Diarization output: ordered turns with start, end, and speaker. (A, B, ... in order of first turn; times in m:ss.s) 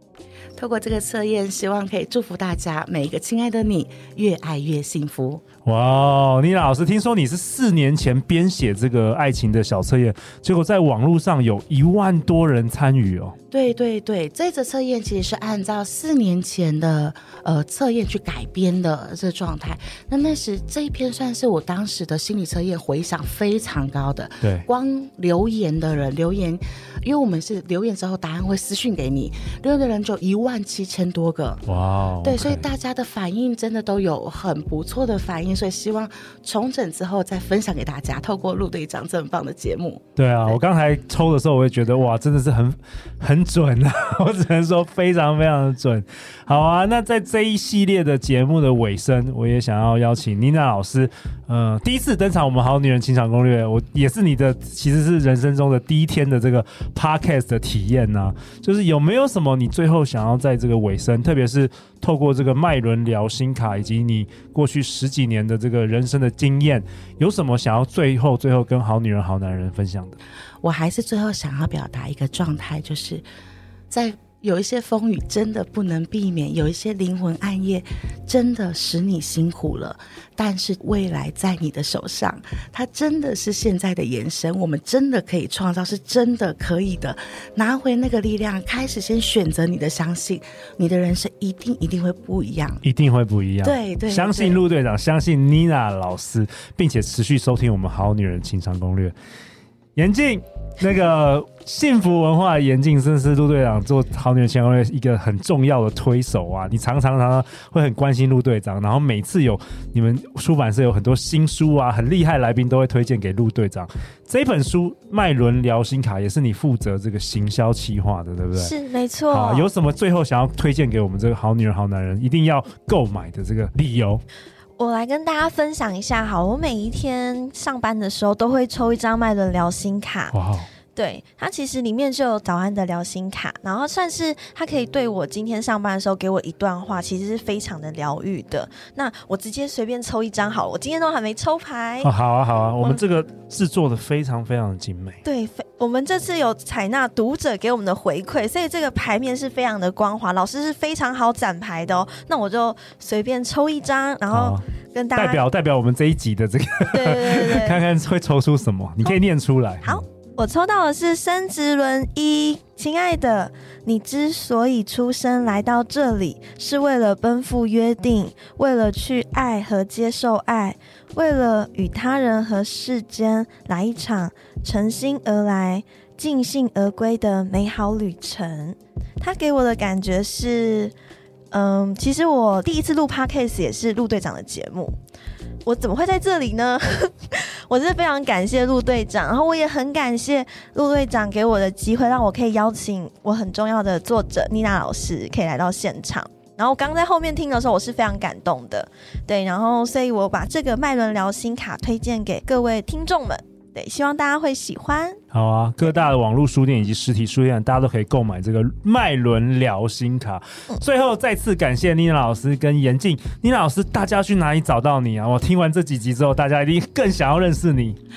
0:00.6-0:05.4 A
0:05.7-0:13.4 B
0:13.5-0:31.6 A
0:31.7-0:32.6 B
0:32.2-0:40.6 A
0:40.2-1:10.2 B
1:10.6-1:13.2 A
1:13.9-1:32.8 A
1:32.8-1:39.1 B
1:33.6-1:34.6 A
1:40.0-1:58.7 B
1:58.6-1:59.7 C
1:59.3-2:04.2 B
2:04.8-2:10.4 C
2:10.3-2:10.7 B
2:11.0-2:22.1 C
2:22.0-2:25.2 B
2:25.2-2:35.4 C
2:34.3-2:34.6 B
2:35.2-2:40.0 B
2:36.9-2:37.8 C
2:39.8-3:00.9 C
3:01.5-3:05.0 C
3:05.6-3:25.2 C
3:25.3-3:38.0 B